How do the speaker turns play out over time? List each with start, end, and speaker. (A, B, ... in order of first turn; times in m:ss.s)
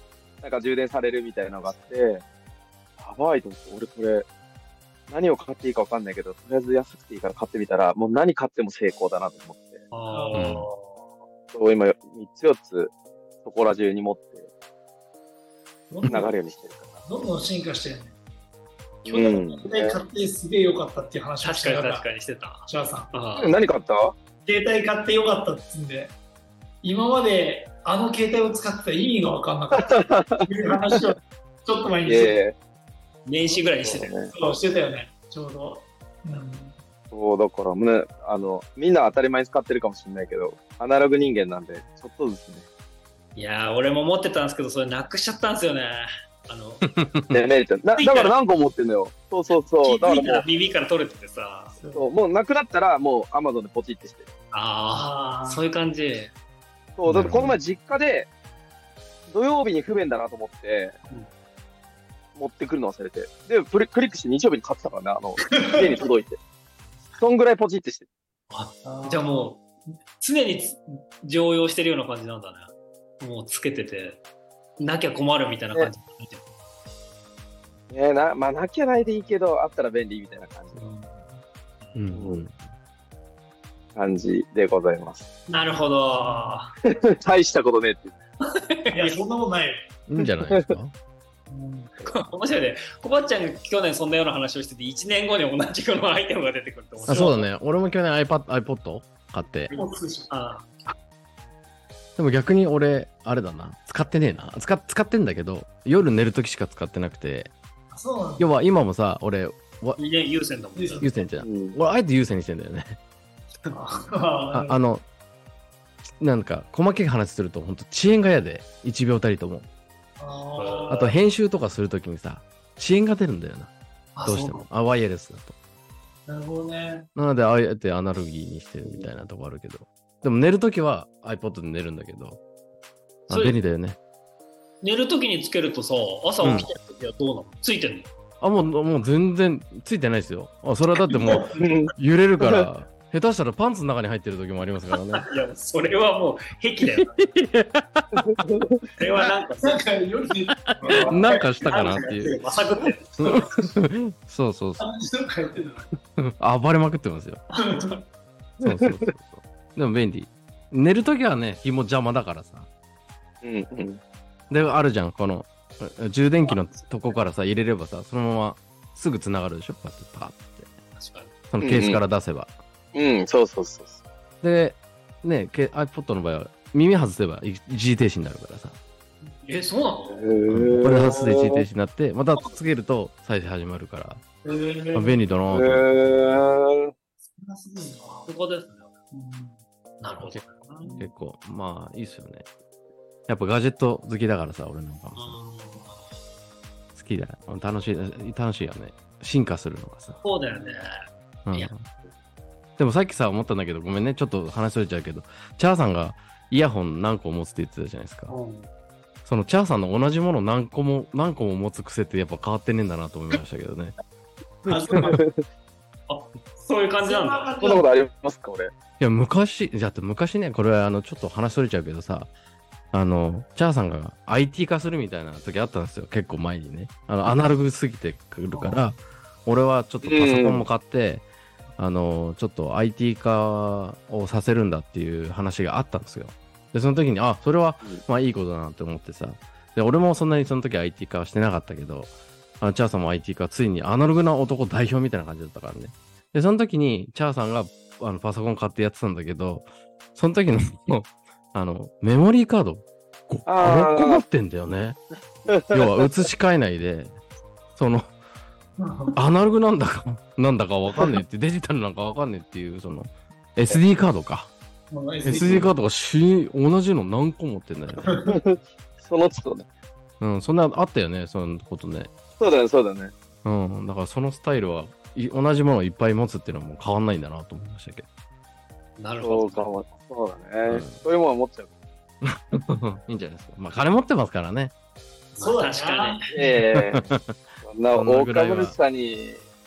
0:00.4-0:02.2 A
0:03.0-0:04.2 A
0:05.1-0:09.8 A
0:09.9-0:11.0 B
0:10.1-0:10.4 C
0:10.3-0:10.7 D
0:11.5-0:12.9 A
0:13.4-0:14.5 A
0:15.9-0:16.3 C
0:16.0-0:17.0 A
0:17.0-0:18.2 C
0:19.0-0:20.0 A
0:19.0-0:22.0 C
0:21.4-0:23.5 B
0:22.7-0:23.1 C
0:23.3-0:24.2 A
0:24.4-0:26.1 C
0:26.8-0:32.4 C
0:29.8-0:31.0 A
0:32.0-0:32.6 A
0:33.2-0:34.1 B
0:33.8-0:34.3 A
0:34.3-0:36.8 C
0:37.1-0:42.6 A
0:43.4-0:46.9 B
0:46.9-0:47.4 D
0:47.3-0:50.4 A
0:48.0-0:48.3 B
0:49.8-0:51.8 B
0:51.8-0:52.1 C
0:51.9-0:54.3 A
0:54.5-0:56.3 B
0:54.9-0:55.6 C
0:57.0-0:58.3 A
0:57.1-0:57.5 D
0:59.3-1:00.9 A
1:02.4-1:06.4 A
1:05.5-1:05.9 C
1:07.2-1:08.0 A
1:08.5-1:09.6 B
1:08.8-1:09.5 C
1:10.2-1:14.2 B
1:14.8-1:16.4 B
1:17.9-1:20.8 A
1:20.8-1:21.3 C
1:21.9-1:22.6 D
1:22.1-1:22.4 A
1:24.0-1:25.3 A
1:25.5-1:26.7 B
1:26.2-1:26.6 C
1:26.9-1:28.1 A
1:28.5-1:29.2 B
1:28.9-1:29.8 C
1:30.1-1:30.9 D
1:30.4-1:30.8 A
1:31.5-1:31.9 C
1:32.0-1:32.2 A
1:32.0-1:37.4 B
1:37.0-1:39.7 D
1:39.7-1:40.7 B
1:39.7-1:40.3 C
1:42.2-1:47.5 D
1:47.9-1:48.5 C
1:48.4-1:50.0 D
1:50.0-1:51.1 B
1:50.8-1:51.1 C
1:51.0-1:53.0 D
1:51.4-1:51.8 A
1:53.7-1:54.7 C
1:54.5-1:55.0 D
1:56.2-1:59.7 D
2:00.2-2:01.1 C
2:00.6-2:01.1 B
2:00.9-2:03.7 D
2:04.2-2:04.6 B
2:04.2-2:05.5 D
2:06.3-2:07.1 C
2:07.1-2:12.4 D
2:13.3-2:13.6 B
2:13.3-2:14.0 D
2:14.8-2:18.1 B
2:16.4-2:16.7 D
2:18.4-2:25.2 D
2:21.2-2:21.6 C
2:21.6-2:22.7 A
2:25.2-2:27.2 B
2:26.8-2:28.4 D
2:28.2-2:28.8 A
2:29.0-2:29.8 B
2:29.6-2:32.0 C
2:30.6-2:32.4 D
2:31.6-2:33.4 B
2:33.2-2:34.8 D
2:34.8-2:35.9 C
2:36.2-2:37.4 D
2:37.6-2:37.8 B
2:37.6-2:38.0 C
2:38.6-2:42.7 D
2:38.6-2:39.0 A
2:43.4-2:44.0 A
2:44.5-2:50.7 D
2:51.0-2:51.3 B
2:51.5-2:52.5 D
2:51.6-2:52.0 A
2:52.9-2:54.0 A
2:54.4-2:58.8 D
2:59.4-3:00.2 B
3:00.0-3:01.6 A
3:00.5-3:04.2 D
3:04.4-3:05.2 C
3:04.9-3:05.8 D
3:05.5-3:06.9 A
3:07.3-3:08.3 C
3:07.8-3:08.9 B
3:09.1-3:09.6 C
3:10.0-3:10.9 B
3:10.8-3:11.1 C
3:11.0-3:12.4 D
3:13.3-3:15.4 D
3:15.2-3:16.1 B
3:17.0-3:20.2 D
3:20.2-3:20.9 B
3:21.4-3:21.8 D
3:22.8-3:28.3 D
3:28.3-3:28.7 B
3:29.2-3:33.9 D
3:34.7-3:35.2 C
3:34.9-3:35.4 A
3:36.1-3:37.5 B
3:37.0-3:37.9 C
3:37.6-3:38.7 A
3:39.0-3:42.3 D
3:42.9-3:51.2 D
3:48.5-3:48.9 C
3:50.0-3:50.6 A
3:51.8-4:15.0 D
4:13.4-4:14.2 A
4:15.5-4:15.8 A
4:15.7-4:17.1 D
4:17.8-4:18.1 D
4:18.8-4:19.2 C
4:19.1-4:24.5 D
4:24.9-4:25.7 C
4:25.2-4:28.1 D
4:28.3-4:29.6 A
4:30.2-4:32.1 D
4:32.4-4:33.1 A
4:33.4-4:38.0 D
4:39.0-4:39.7 B
4:39.2-4:41.7 A
4:40.6-4:41.0 D
4:42.2-4:44.7 D
4:45.4-4:46.6 C
4:45.4-4:46.2 B
4:46.3-4:47.1 A
4:46.7-4:47.3 D
4:47.6-4:49.4 A
4:47.9-4:48.8 D